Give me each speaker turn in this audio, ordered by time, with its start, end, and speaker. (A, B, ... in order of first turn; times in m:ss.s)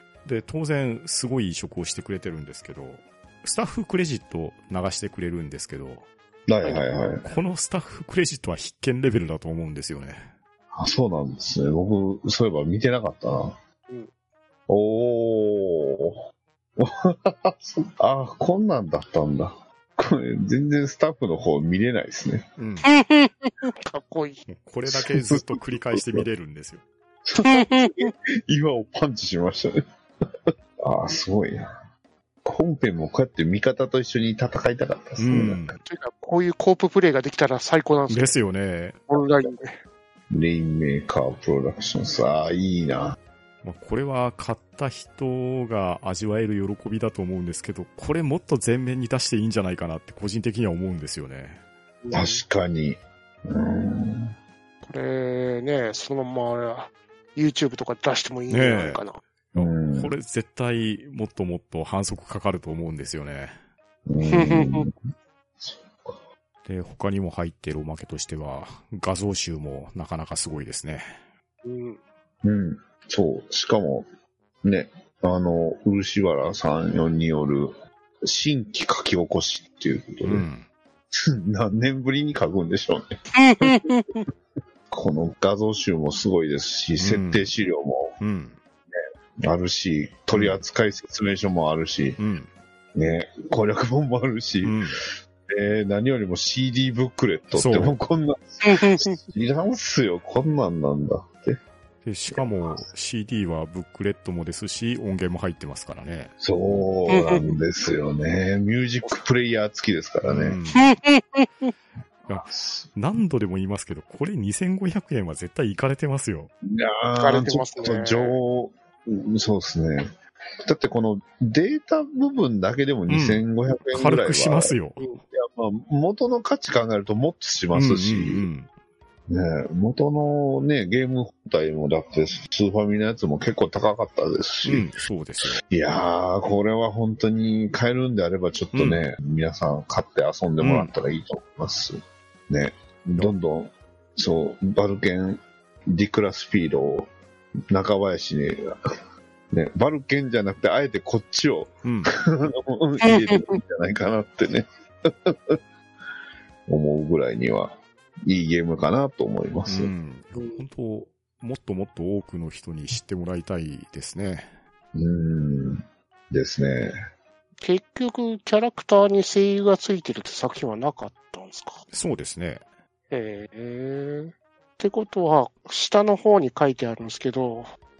0:00.2-0:06.1 A
0:06.5-0:07.3 B
0:07.2-0:10.3 A
0:10.7-0:13.6 B
0:14.7-0:16.2 B
0:16.8-0:22.5 B
0:22.6-0:22.9 A
0:22.8-0:24.4 C
0:24.5-0:26.8 A
0:24.9-0:26.3 B
0:27.2-0:29.8 B
0:27.4-0:28.1 C
0:30.5-0:31.8 B
0:32.4-0:35.7 B
0:35.2-0:35.8 A
0:35.8-0:38.4 C
0:38.1-0:39.0 A
0:39.1-0:39.8 C
0:40.3-0:43.2 B
0:43.6-0:51.6 A
0:52.0-0:52.4 C
0:52.1-0:54.3 B
0:54.8-0:59.2 C
0:58.5-0:59.0 A
0:59.5-1:03.6 A
0:59.6-1:00.1 B
1:04.0-1:04.9 B
1:04.3-1:04.8 C
1:05.6-1:06.2 B
1:06.6-1:11.2 A
1:11.6-1:12.0 C
1:12.4-1:14.1 B
1:14.6-1:20.5 B
1:20.2-1:20.7 A
1:21.1-1:23.8 B
1:23.4-1:24.2 C
1:24.9-1:28.2 B
1:27.0-1:27.5 A
1:28.2-1:28.6 A
1:29.4-1:32.2 B
1:30.3-1:30.6 A
1:32.2-1:32.5 A
1:32.9-1:34.8 B
1:34.6-1:35.0 A
1:35.5-1:41.6 B
1:37.5-1:38.0 A
1:38.6-1:39.2 C
1:42.0-1:46.3 A
1:42.3-1:42.8 B
1:46.4-1:50.6 B
1:47.1-1:47.4 C
1:50.3-1:50.9 A
1:50.7-1:51.7 C
1:52.3-1:56.5 A
1:52.4-1:52.9 B
1:56.6-2:00.1 B
1:57.2-1:58.4 C
2:00.6-2:04.7 B
2:03.1-2:05.0 A
2:05.3-2:08.4 B
2:07.7-2:08.7 A
2:09.3-2:14.9 B
2:14.6-2:15.6 A
2:15.6-2:27.1 B
2:18.7-2:19.0 A
2:20.6-2:20.9 A
2:27.7-2:28.7 B
2:29.5-2:35.6 B
2:31.8-2:32.1 A
2:33.0-2:33.6 C
2:36.7-2:39.9 B
2:39.7-2:44.6 A
2:40.4-2:40.6 C
2:44.9-2:46.9 B
2:47.6-2:51.8 C
2:51.9-2:52.6 A
2:53.1-2:57.7 C